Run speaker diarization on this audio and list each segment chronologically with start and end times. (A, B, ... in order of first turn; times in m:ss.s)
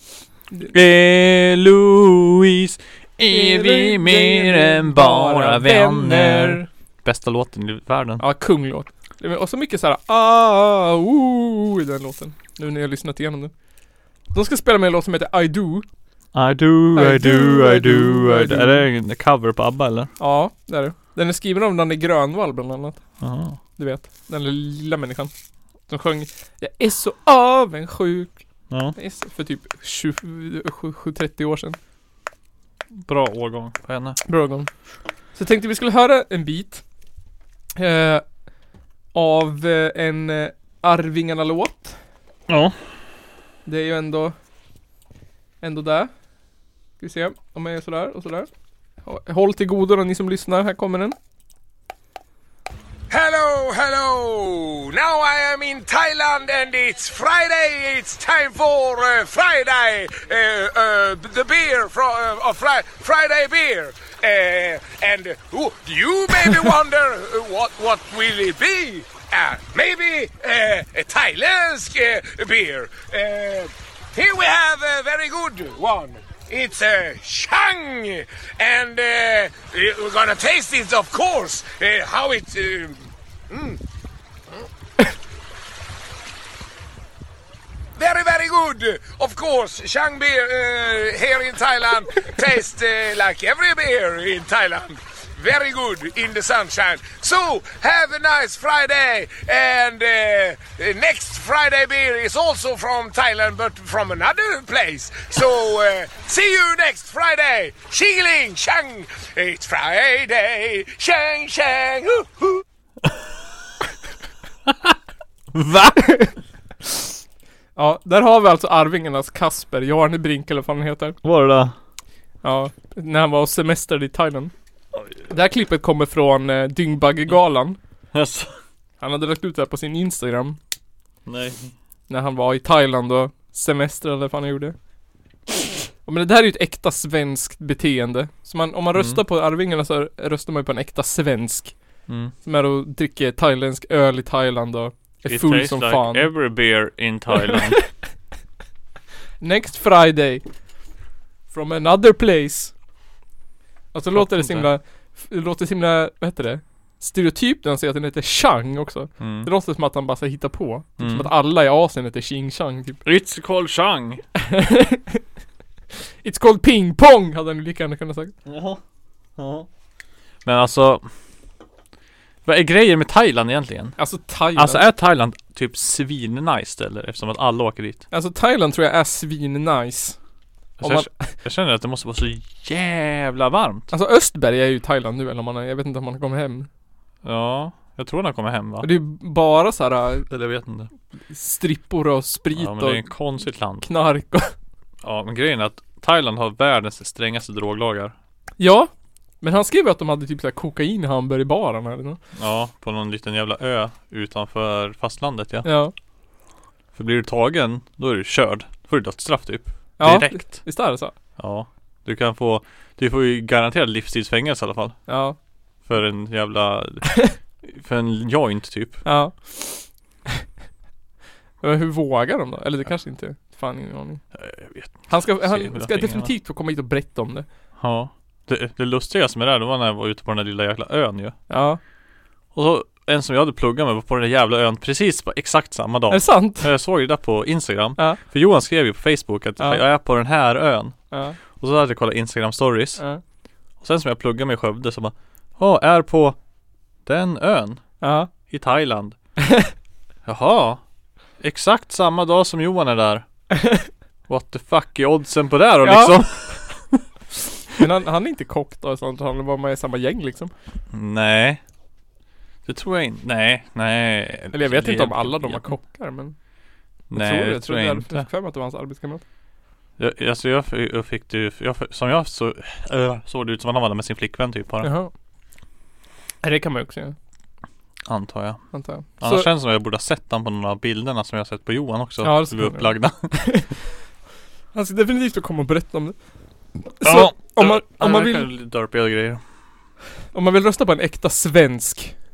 0:00.7-0:08.2 A
0:03.3-0:06.7 B
0:08.2-0:13.5 B
0:14.3-0:15.9 B
0:16.3-0:20.1 A
0:17.0-0:18.9 B
0:20.2-0:23.0 B
0:23.2-0:23.6 A
0:23.8-0:25.3 B
0:25.9-0:28.4 B
0:28.7-0:29.0 A
0:29.0-0:31.8 B
0:32.9-0:34.2 A
0:34.2-0:34.7 B
0:35.3-0:36.8 B
0:37.8-0:38.3 B
0:39.1-0:42.0 B
0:42.5-0:42.8 A
0:43.7-0:44.4 B
0:45.6-0:46.1 B
0:47.0-0:48.5 B
0:49.0-0:51.2 B
0:53.1-1:23.8 C
1:28.0-1:52.6 C
1:54.7-1:55.0 A
1:55.5-1:56.2 A
1:57.8-2:01.2 B
2:01.2-2:01.8 A
2:02.4-2:04.5 B
2:05.3-2:07.8 B
2:08.1-2:08.6 A
2:09.0-2:10.6 B
2:11.3-2:11.7 A
2:12.1-2:14.8 B
2:16.0-2:21.8 B
2:19.0-2:19.2 A
2:22.1-2:22.3 A
2:22.4-2:26.3 B
2:25.3-2:27.9 A
2:27.5-2:27.8 B
2:29.4-2:30.4 B
2:31.5-2:32.7 B
2:33.9-2:43.0 B
2:34.1-2:34.7 A
2:39.2-2:39.5 A
2:41.0-2:41.3 A
2:43.0-2:44.2 A
2:44.4-2:45.2 B
2:46.2-2:48.3 B
2:48.5-2:48.8 A
2:49.4-2:49.7 A
2:50.4-2:51.1 A
2:52.4-2:54.0 A
2:54.0-2:54.9 B
2:54.6-2:58.0 A
2:58.1-3:00.2 B
3:00.8-3:03.9 A
3:00.8-3:01.4 B
3:03.9-3:06.7 B
3:07.2-3:08.9 A
3:08.8-3:10.3 B
3:10.3-3:10.9 A
3:11.3-3:13.0 B
3:12.5-3:13.9 A
3:13.8-3:14.5 B
3:15.0-3:18.1 A
3:18.6-3:22.2 B
3:22.4-3:25.7 A
3:25.6-3:25.9 B
3:27.0-3:30.7 A
3:30.0-3:31.1 B
3:31.4-3:35.0 A
3:35.1-3:35.4 B
3:35.8-3:39.0 A
3:39.0-3:39.9 B
3:41.6-3:44.2 B
3:44.3-3:46.3 A
3:45.1-3:47.5 B
3:47.8-3:51.4 A
3:51.5-3:51.8 B
3:52.5-4:01.0 A
3:56.1-3:56.7 B
4:01.1-4:01.4 B
4:01.5-4:03.0 A
4:03.8-4:06.4 A
4:07.0-4:07.9 A
4:08.0-4:08.3 B
4:08.4-4:09.2 A
4:10.2-4:10.8 A
4:11.4-4:13.2 A
4:14.3-4:17.0 A
4:15.8-4:16.2 B
4:17.8-4:20.5 B
4:20.9-4:21.6 A
4:22.6-4:25.8 A
4:24.5-4:26.4 B
4:27.1-4:28.3 A
4:27.1-4:29.2 B
4:30.0-4:34.9 A
4:34.8-4:35.1 B
4:36.4-4:37.2 B
4:38.1-4:43.7 A
4:38.7-4:39.5 B
4:42.2-4:43.7 B
4:44.7-4:46.2 B
4:46.8-4:48.5 B
4:47.0-4:49.4 A
4:50.3-4:52.2 B